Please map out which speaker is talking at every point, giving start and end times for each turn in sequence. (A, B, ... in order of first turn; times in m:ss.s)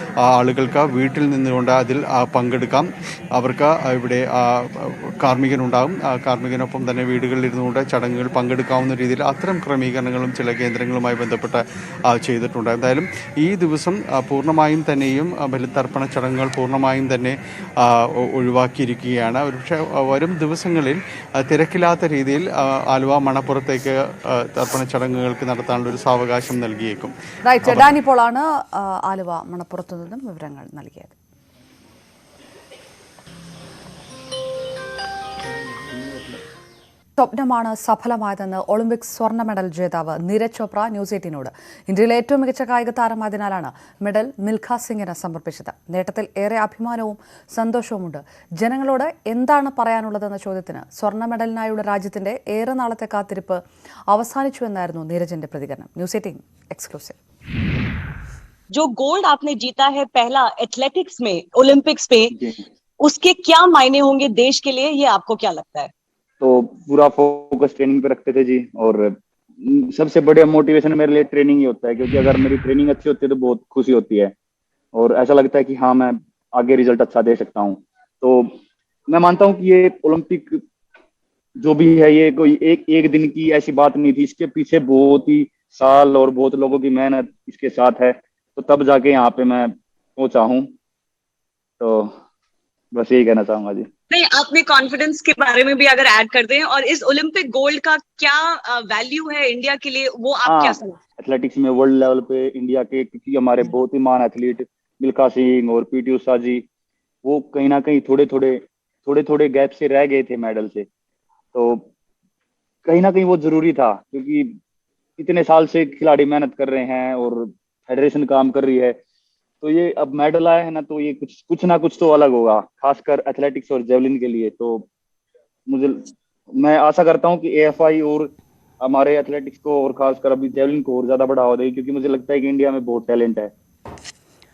0:00.3-0:24.0 A
0:24.5-0:27.9 A
0:27.5-0:31.2 B
0:37.2-0:53.6 B
0:54.1-0:57.2 B
0:58.8-1:02.3 C
1:02.3-1:02.6 D
1:03.1-1:05.9 C
1:06.4-1:14.3 D
1:14.9-1:18.6 D
1:19.1-1:20.6 D
1:21.6-1:30.7 D
1:31.8-1:32.1 D
1:32.9-1:33.8 D
1:34.1-1:38.4 C
1:38.9-1:40.8 C
1:40.5-1:46.6 D
1:47.2-1:50.9 D
1:51.5-1:51.8 D
1:52.8-1:54.6 D
1:55.2-1:59.0 D
1:59.6-2:04.8 D
2:05.7-2:13.5 D